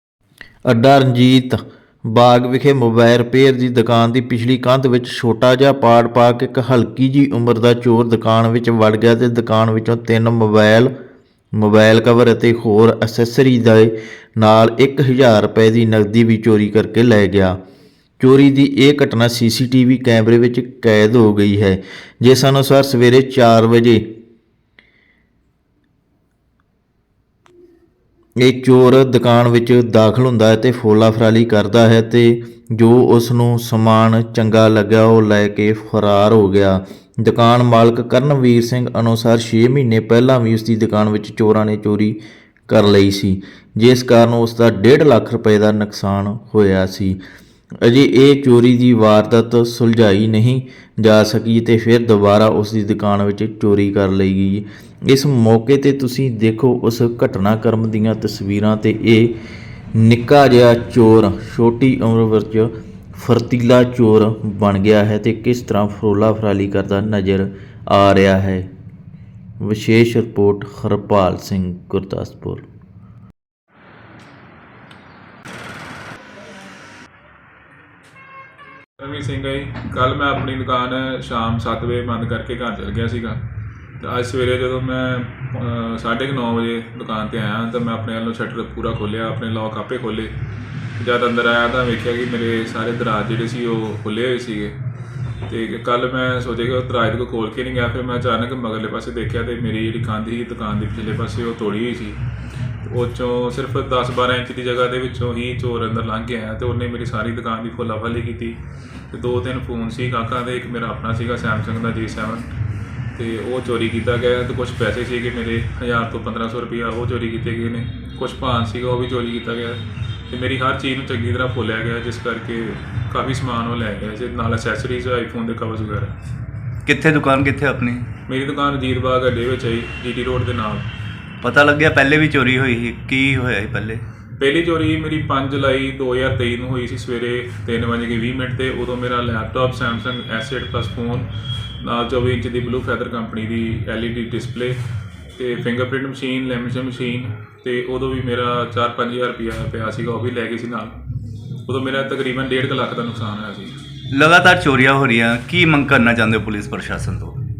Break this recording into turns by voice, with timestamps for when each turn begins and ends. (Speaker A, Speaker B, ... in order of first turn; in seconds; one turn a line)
Speaker A: 0.7-10.9
Speaker A: 11.6-17.6
Speaker A: 18.2-24.0
Speaker A: 28.4-47.2
Speaker A: 47.8-59.3
Speaker A: 59.9-68.7
Speaker A: 69.6-72.6
Speaker B: 79.0-83.4
Speaker B: 84.0-90.3
Speaker B: 91.0-94.7
Speaker B: 95.5-102.2
Speaker B: 102.8-108.6
Speaker B: 109.1-112.5
Speaker B: 113.1-126.1
Speaker C: 126.8-128.1
Speaker B: 128.3-130.9
Speaker C: 131.4-134.0
Speaker B: 134.4-141.3
Speaker B: 141.8-144.8
Speaker B: 145.3-151.0
Speaker B: 151.7-153.8
Speaker C: 154.1-157.4